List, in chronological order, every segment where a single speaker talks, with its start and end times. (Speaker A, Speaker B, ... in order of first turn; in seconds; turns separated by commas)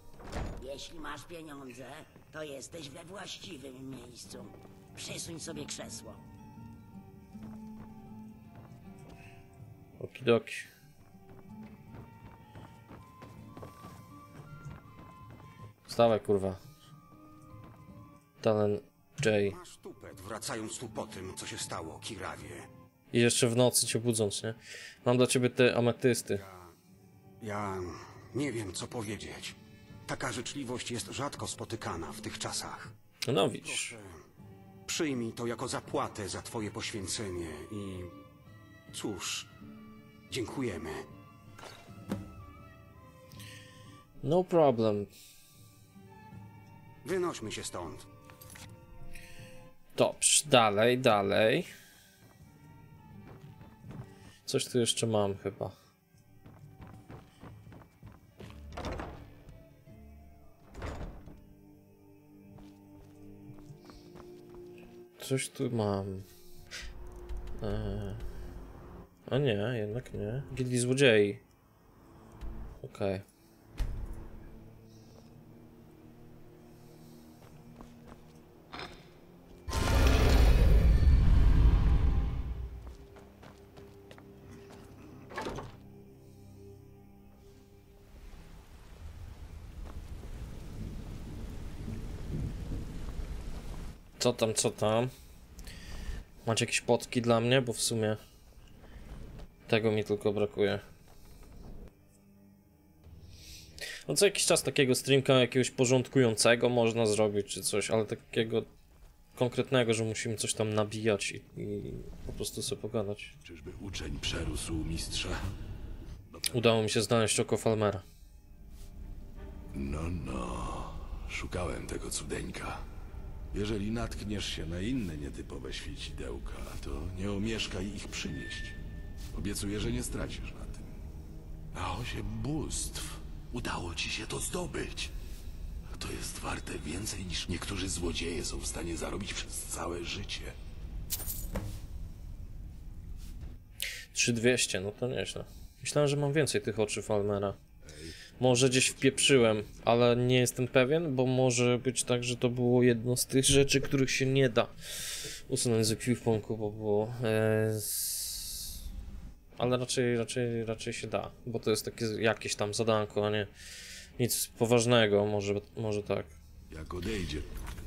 Speaker A: 0.6-6.2, Speaker B: 10.0-10.7, Speaker B: 15.9-16.6, Speaker B: 18.4-19.6, Speaker C: 19.4-22.7, Speaker B: 23.1-26.4, Speaker C: 26.3-26.7, Speaker C: 27.4-29.6, Speaker C: 30.1-32.9, Speaker B: 33.2-34.0, Speaker C: 33.6-34.1, Speaker C: 34.9-38.1, Speaker C: 38.9-39.5, Speaker C: 40.3-41.0, Speaker B: 44.2-45.1, Speaker C: 47.0-48.0, Speaker B: 50.0-51.7, Speaker B: 54.5-55.7, Speaker B: 65.2-66.2, Speaker B: 67.6-68.2, Speaker B: 69.3-71.4, Speaker B: 72.8-73.2, Speaker B: 94.2-95.1, Speaker B: 96.4-98.2, Speaker B: 99.7-100.8, Speaker B: 104.1-108.7, Speaker B: 109.3-113.3, Speaker D: 113.4-115.4, Speaker D: 116.3-116.7, Speaker B: 116.5-118.0, Speaker D: 119.7-122.8, Speaker D: 123.5-128.8, Speaker D: 129.3-131.0, Speaker D: 131.7-135.1, Speaker D: 135.9-140.6, Speaker B: 144.1-147.6, Speaker D: 147.8-149.7, Speaker B: 148.4-158.7, Speaker B: 159.6-163.5, Speaker B: 164.2-166.4, Speaker D: 166.7-167.5